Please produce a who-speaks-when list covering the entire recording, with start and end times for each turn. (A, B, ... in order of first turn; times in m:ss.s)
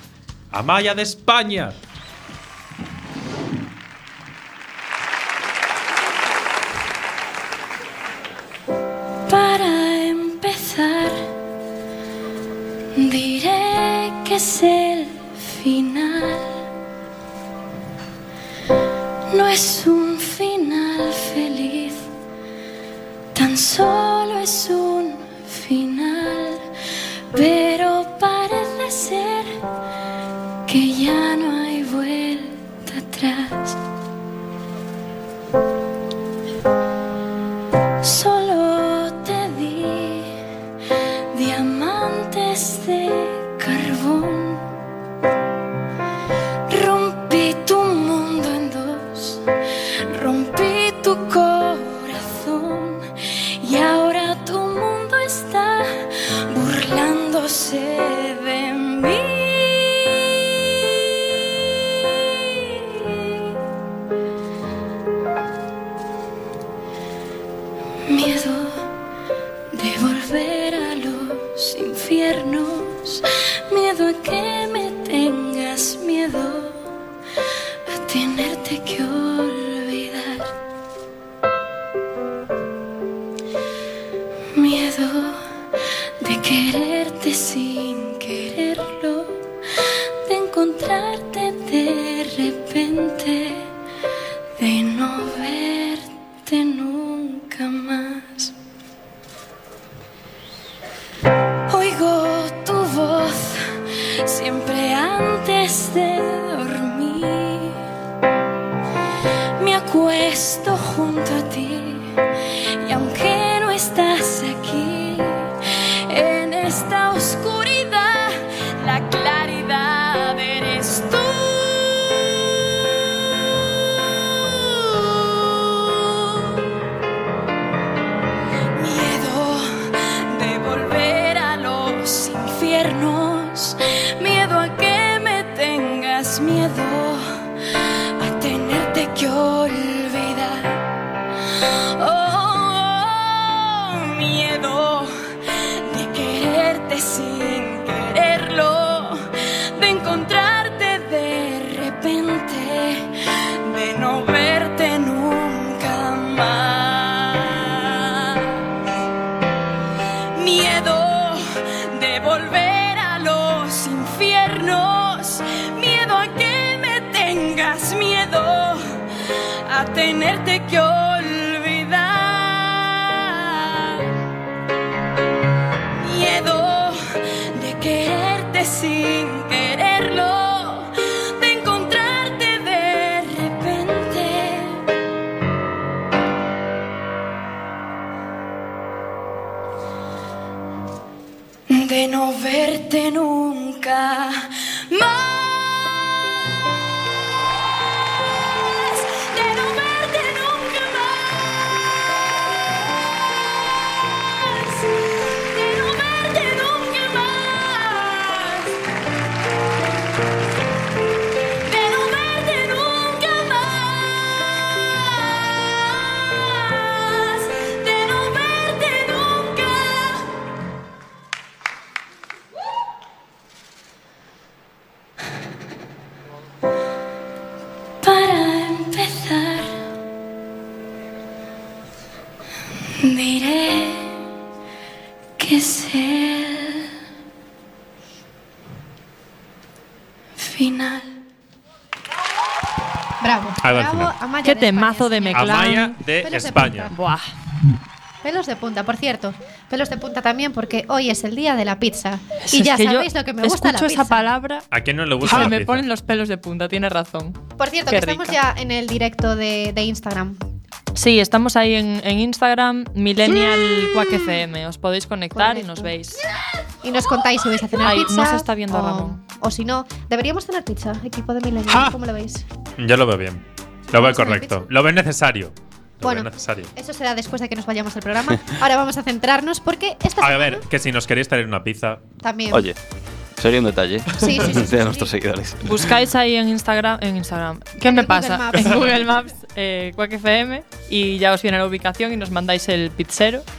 0:00.5-0:01.8 A
0:09.3-0:11.3 B
0:13.0-0:16.6 B
0:19.3-0:22.1 B
0:23.4-0:26.6 B
0:27.3-0:29.6 B
0:30.7-0:33.8 B
0:38.0-0:40.4 B
0:41.3-0:44.7 B
0:46.7-0:49.4 B
0:50.1-0:53.1 B
0:53.6-1:00.3 B
1:02.4-1:03.3 B
1:08.1-1:08.9 B
1:09.7-1:16.9 B
1:17.9-1:20.5 B
1:24.6-1:25.4 B
1:26.2-1:29.4 B
1:30.2-1:33.7 B
1:34.6-1:38.5 B
1:41.7-1:43.7 B
1:44.2-1:47.8 B
1:49.6-1:52.2 B
1:52.8-1:55.5 B
1:56.1-2:02.2 B
2:04.4-2:06.5 B
2:08.8-2:17.3 B
2:18.2-2:20.8 B
2:22.0-2:25.1 B
2:25.9-2:33.1 B
2:33.6-2:38.5 B
2:40.4-2:49.0 B
2:49.7-2:54.1 B
2:56.0-2:57.0 B
2:57.5-3:04.9 B
3:11.7-3:16.1 B
3:18.5-3:21.5 B
3:24.4-3:28.7 B
3:31.6-3:34.3 B
3:35.1-3:40.2 B
3:48.0-3:49.8 B
3:53.0-3:54.2 B
3:55.4-3:56.9 B
4:00.4-4:01.2 B
4:03.2-4:07.0 C
4:03.6-4:04.1 A
4:04.4-4:06.0 D
4:05.3-4:06.9 A
4:06.9-4:07.2 D
4:08.2-4:14.2 C
4:12.4-4:14.6 D
4:14.7-4:15.8 A
4:15.2-4:18.4 D
4:17.6-4:20.4 C
4:21.0-4:26.2 D
4:25.3-4:25.9 C
4:26.8-4:32.4 C
4:27.8-4:29.2 D
4:32.8-4:36.7 A
4:33.9-4:34.7 C
4:36.0-4:40.6 C
4:40.2-4:42.0 A
4:42.2-4:42.7 C
4:42.5-4:42.8 E
4:43.4-4:45.9 E
4:44.2-4:45.1 C
4:45.6-4:53.4 D
4:47.8-4:49.0 C